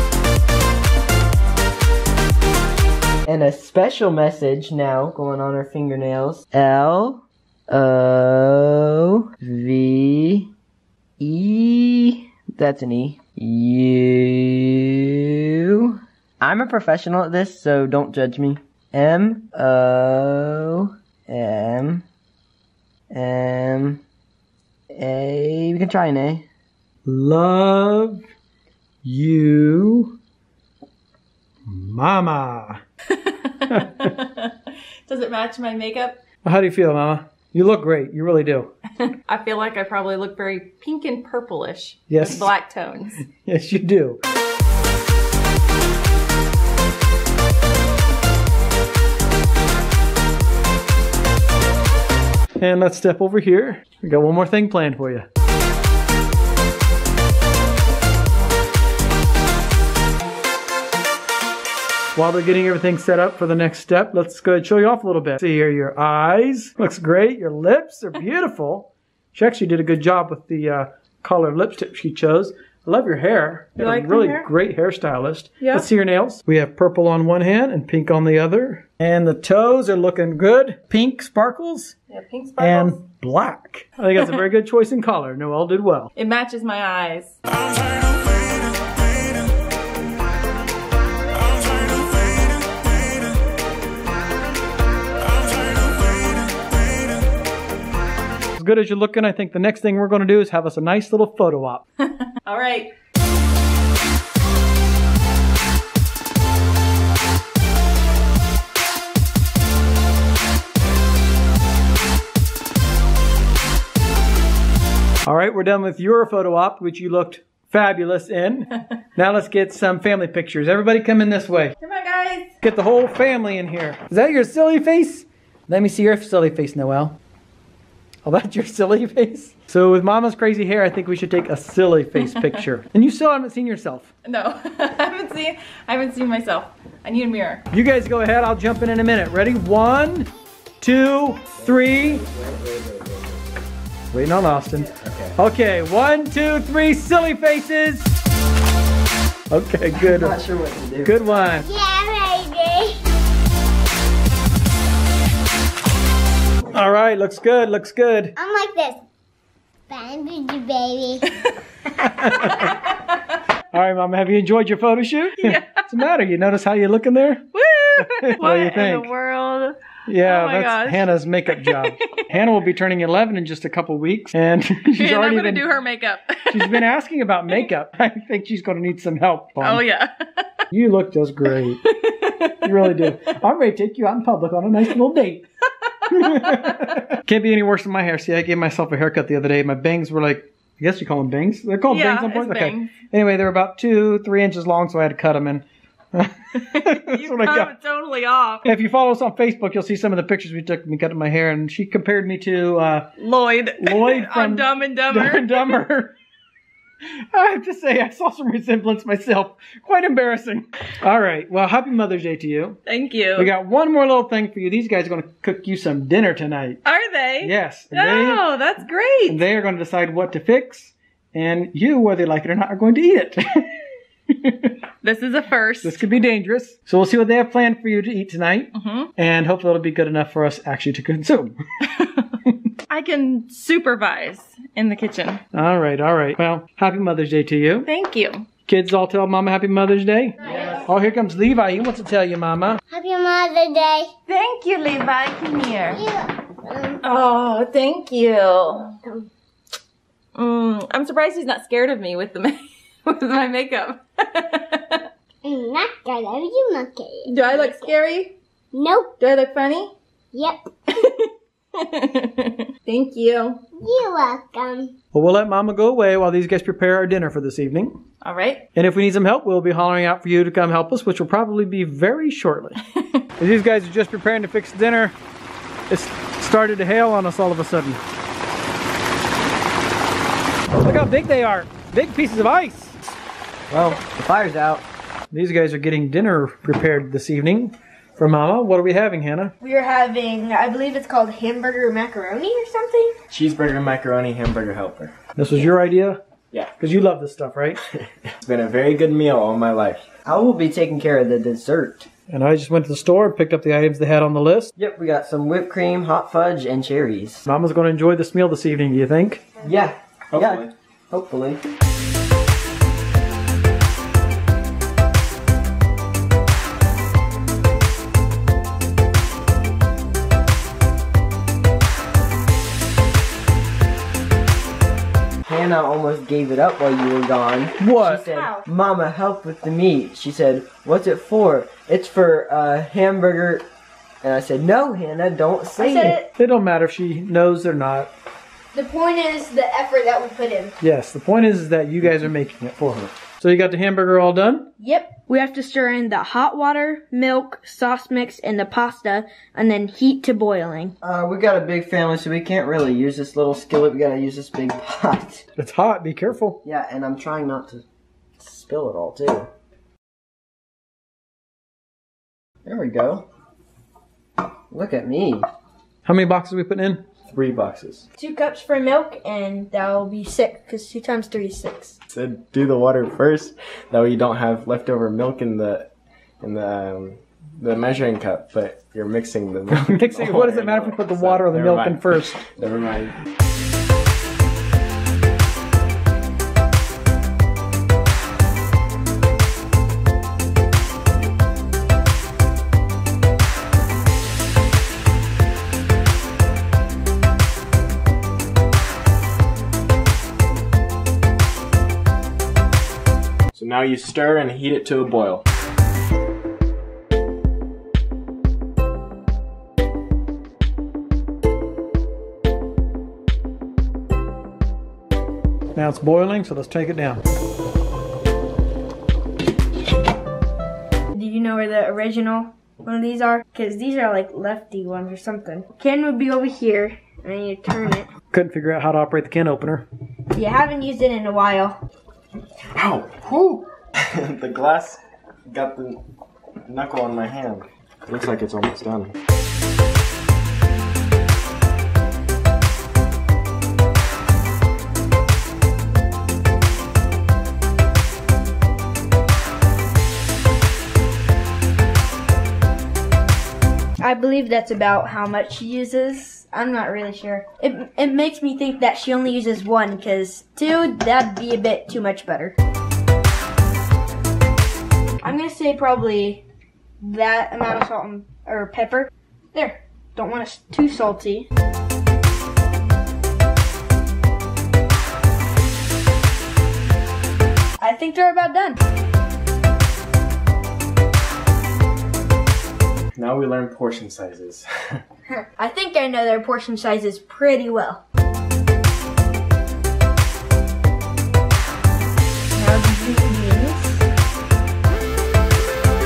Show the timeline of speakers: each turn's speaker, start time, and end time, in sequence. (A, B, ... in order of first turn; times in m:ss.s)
0:03.2-0:10.5 A
0:11.2-0:22.0 A
0:23.1-0:24.0 A
0:24.9-0:26.4 A
0:27.0-0:28.2 B
0:29.0-0:30.2 B
0:31.6-0:32.8 B
0:33.1-0:34.5 C
0:33.7-0:34.1 B
0:35.1-0:36.2 C
0:36.4-0:38.7 B
0:39.0-0:43.2 C
0:42.1-0:42.5 B
0:43.3-0:44.2 B
0:52.6-0:55.2 B
1:02.2-1:21.9 B
1:13.8-1:14.5 C
1:15.6-1:15.8 C
1:22.1-1:23.0 C
1:22.6-1:26.1 B
1:26.2-1:27.4 C
1:38.6-1:41.8 B
1:42.0-1:42.9 C
1:55.2-2:01.8 B
2:01.8-2:02.6 C
2:02.6-2:07.2 B
2:08.2-2:14.1 B
2:12.2-2:12.6 C
2:14.2-2:17.7 C
2:17.7-2:20.3 B
2:20.8-2:22.2 B
2:22.0-2:23.2 A
2:22.3-2:22.9 D
2:24.1-2:28.1 B
2:25.0-2:25.3 D
2:29.5-2:30.4 B
2:29.9-2:31.5 A
2:31.0-2:31.7 B
2:31.6-2:33.0 E
2:36.7-2:38.3 B
2:38.4-2:39.0 E
2:39.9-2:41.2 E
2:42.0-2:42.7 B
2:43.7-2:47.4 B
2:45.4-2:45.8 C
2:47.5-2:52.2 C
2:48.0-2:49.1 B
2:50.0-2:55.7 B
2:55.0-2:56.8 C
2:56.5-2:59.8 B
2:59.6-3:00.5 C
3:00.7-3:01.8 B
3:01.8-3:03.2 C
3:02.6-3:05.4 B
3:06.1-3:17.7 B
3:06.2-3:06.9 C
3:11.9-3:12.9 C
3:16.6-3:18.6 C
3:18.6-3:23.1 B
3:23.2-3:25.8 C
3:23.8-3:26.1 B
3:27.3-3:32.8 B
3:32.8-3:33.5 C
3:33.4-3:36.8 B
3:36.8-3:39.4 C
3:37.4-3:38.4 B
3:39.3-3:43.7 B
3:44.3-3:44.7 B
3:45.0-3:46.0 C
3:45.8-3:51.5 B
3:48.7-3:49.1 C
3:51.9-3:52.3 C
3:52.9-3:55.4 C
3:55.5-3:57.9 B
3:57.8-3:58.5 C
3:58.6-4:02.8 B
4:00.4-4:00.8 E
4:02.9-4:04.1 E
4:04.3-4:06.0 C
4:05.8-4:07.0 E
4:07.0-4:08.9 C
4:09.0-4:09.3 E
4:10.4-4:15.0 C
4:15.4-4:17.9 E
4:17.3-4:18.3 C
4:18.7-4:19.1 E
4:19.2-4:19.9 C
4:20.3-4:20.7 E
4:20.9-4:23.6 C
4:23.8-4:24.9 E
4:25.1-4:28.0 B
4:28.2-4:28.6 C
4:28.7-4:32.8 B
4:33.4-4:35.1 B
4:35.9-4:38.0 B
4:40.8-4:43.0 B
4:43.7-4:44.8 A
4:45.3-4:49.5 B
4:49.6-4:53.2 F
4:53.3-4:55.2 D
4:55.4-4:56.2 B
4:56.8-4:57.8 B
4:58.0-5:00.0 D
5:00.2-5:02.1 A
5:02.3-5:04.7 B
5:04.8-5:07.5 A
5:07.5-5:09.4 B
5:09.6-5:11.6 A
5:10.3-5:10.7 D
5:25.4-5:33.6 A
5:27.8-5:28.2 B
5:28.3-5:28.6 F
5:34.2-5:36.2 A
5:35.8-5:36.3 F
5:36.4-5:38.1 B
5:38.7-5:40.8 F
5:40.8-5:44.7 B
5:44.8-5:50.9 F
5:51.0-5:55.5 A
5:55.6-5:56.6 B
5:56.6-5:57.8 A
5:58.4-5:59.5 A
6:02.6-6:03.2 A
6:04.7-6:05.4 A
6:06.0-6:07.0 B
6:07.3-6:07.9 D
6:08.2-6:12.0 F
6:12.1-6:15.9 D
6:16.4-6:23.1 D
6:19.7-6:22.4 B
6:43.5-6:45.4 D
6:55.7-6:57.2 B
7:01.1-7:08.1 F
7:08.3-7:09.8 B
7:10.3-7:11.8 F
7:12.8-7:16.0 D
7:16.6-7:19.1 D
7:34.0-7:42.6 F
7:45.2-7:46.4 F
7:47.0-7:51.5 F
7:57.8-7:58.8 F
8:03.1-8:05.0 D
8:05.3-8:08.0 F
8:12.6-8:14.0 F